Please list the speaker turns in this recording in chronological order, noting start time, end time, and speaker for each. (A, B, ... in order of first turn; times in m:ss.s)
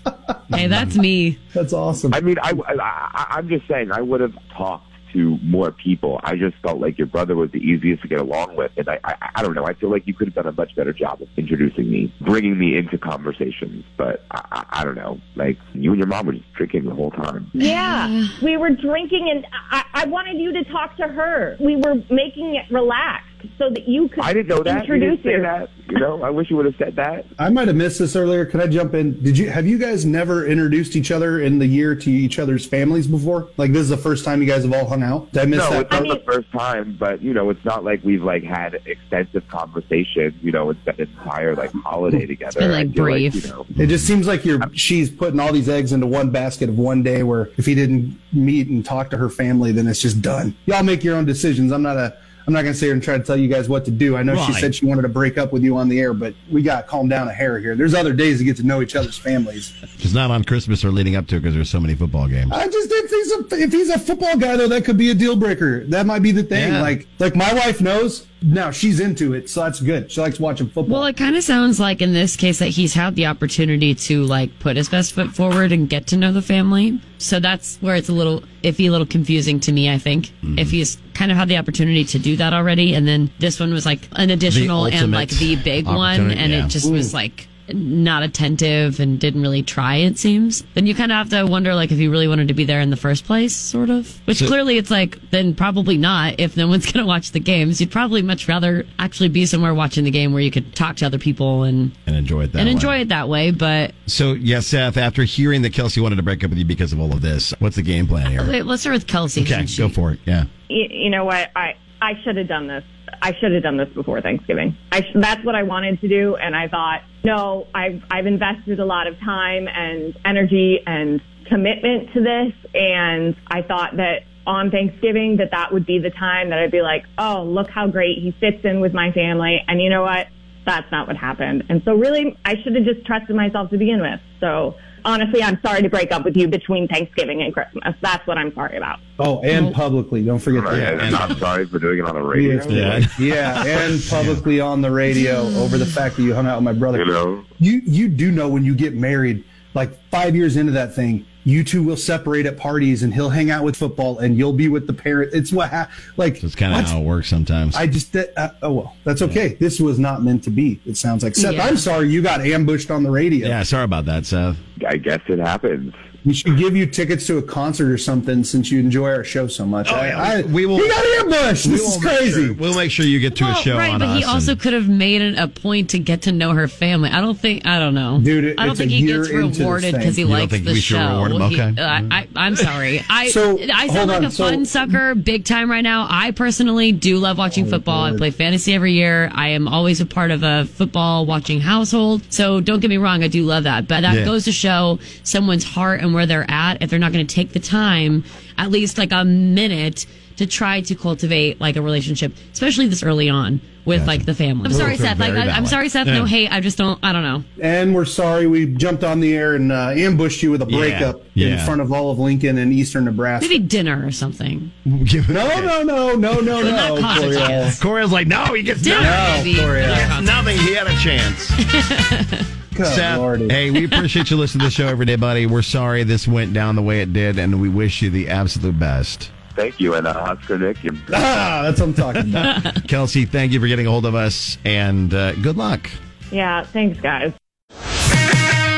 0:00.5-0:01.4 A
0:01.5-0:02.2 B
0:02.1-0:17.5 C
0:17.5-0:25.5 D
0:17.6-0:18.3 A
0:24.2-0:27.3 C
0:27.4-0:35.9 B
0:35.5-0:43.7 C
0:35.9-0:36.2 D
0:42.6-0:43.5 A
0:43.8-0:59.7 B
0:43.8-0:44.1 E
0:54.3-0:54.7 E
1:00.0-1:02.5 E
1:02.5-1:11.1 B
1:06.5-1:06.9 E
1:10.8-1:41.9 A
1:20.4-1:20.7 E
1:24.5-1:26.7 E
1:26.8-1:27.1 B
1:42.1-1:43.0 E
1:42.6-1:43.9 A
1:44.1-1:48.5 E
1:48.4-1:50.0 A
1:49.4-1:50.5 E
1:50.7-2:19.0 D
2:19.2-2:21.3 B
2:20.5-2:23.1 C
2:20.7-2:21.4 E
2:22.3-2:37.0 B
2:22.7-2:23.2 E
2:24.1-2:24.4 E
2:26.9-2:27.4 C
2:36.4-2:37.8 E
2:37.7-2:43.6 B
2:41.4-2:41.8 A
2:43.4-2:44.6 E
2:44.8-2:46.0 C
2:46.2-2:52.6 B
2:49.8-2:50.9 E
2:51.6-2:54.6 E
2:53.3-3:27.4 A
2:58.2-3:00.2 B
3:00.2-3:02.1 E
3:03.2-3:04.7 B
3:07.5-3:08.2 B
3:14.1-3:14.3 E
3:23.9-3:26.3 E
3:24.7-3:25.0 B
3:27.6-3:33.6 B
3:30.7-3:31.7 E
3:33.4-3:34.7 A
3:34.8-3:35.7 E
3:35.3-3:37.8 B
3:36.6-3:37.8 A
3:36.6-3:39.3 E
3:38.8-3:40.6 A
3:39.0-3:40.1 B
3:39.9-3:41.6 E
3:41.6-3:42.5 A
3:42.7-3:43.6 B
3:42.8-3:49.3 E
3:43.7-3:44.0 A
3:49.5-3:51.0 C
3:51.1-3:52.5 B
3:52.4-3:56.0 E
3:56.3-3:57.3 D